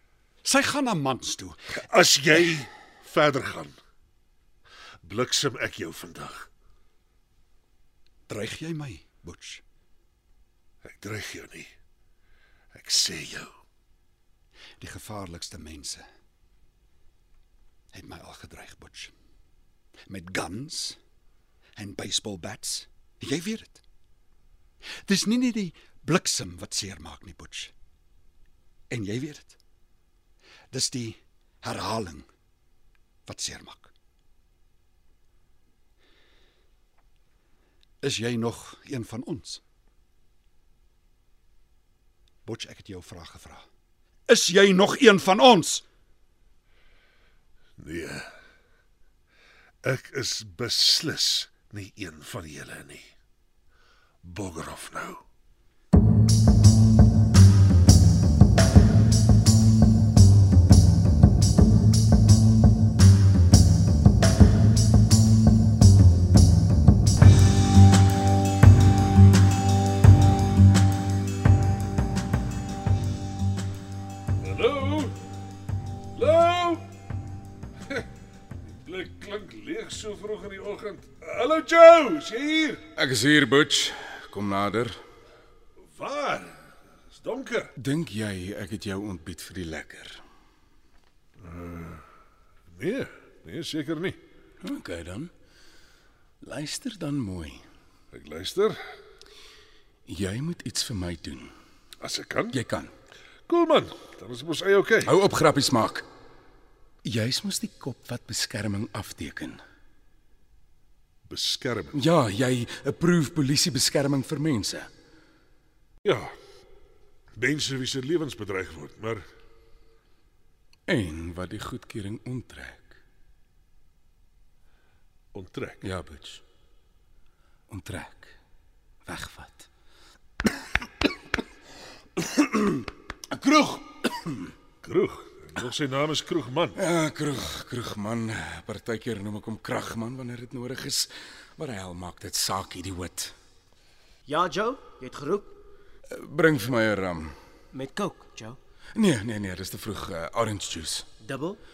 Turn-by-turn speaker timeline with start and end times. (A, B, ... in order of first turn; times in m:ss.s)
0:00.4-0:01.6 A
0:01.8-0:03.7 B
0:05.0-0:06.5 B
0:08.3-0:09.6 A
0:10.8-0:11.7 B
0:12.7-0:13.5 B
0:14.8-0:16.0 A
0:17.9-0:19.1 A
0:20.1-0:21.0 A
0:21.8-0:23.8 A
0:25.0-0:27.7 A
0:28.9-0:29.6 A
0:30.7-0:32.3 A
0:33.3-0:33.9 A
0:38.0-0:39.6 A
0:42.4-0:43.6 A
0:44.3-0:45.8 A
0:47.8-0:48.3 B
0:49.8-0:53.1 B
0:54.2-0:55.2 B
1:14.4-1:15.2 B
1:16.2-1:16.8 B
1:18.7-1:22.8 B
1:23.0-1:25.0 C
1:26.0-1:26.6 B
1:27.2-1:27.7 B
1:27.8-1:30.2 C
1:31.4-1:32.0 B
1:32.7-1:34.2 B
1:34.6-1:35.3 C
1:36.4-1:37.6 C
1:38.1-1:38.8 B
1:40.1-1:41.5 C
1:42.0-1:42.6 B
1:42.5-1:42.9 C
1:43.5-1:45.1 B
1:45.0-1:46.1 C
1:47.0-1:49.6 C
1:51.3-1:52.0 B
1:51.9-1:54.9 C
1:56.0-1:56.3 B
1:57.4-1:59.2 B
2:00.9-2:03.0 C
2:05.3-2:05.8 B
2:05.8-2:06.4 C
2:07.7-2:08.4 C
2:09.1-2:09.7 C
2:12.2-2:14.5 C
2:14.8-2:16.8 B
2:16.8-2:23.3 C
2:24.3-2:25.6 D
2:26.1-2:27.4 C
2:27.7-2:28.6 D
2:29.0-2:31.1 C
2:31.2-2:31.6 D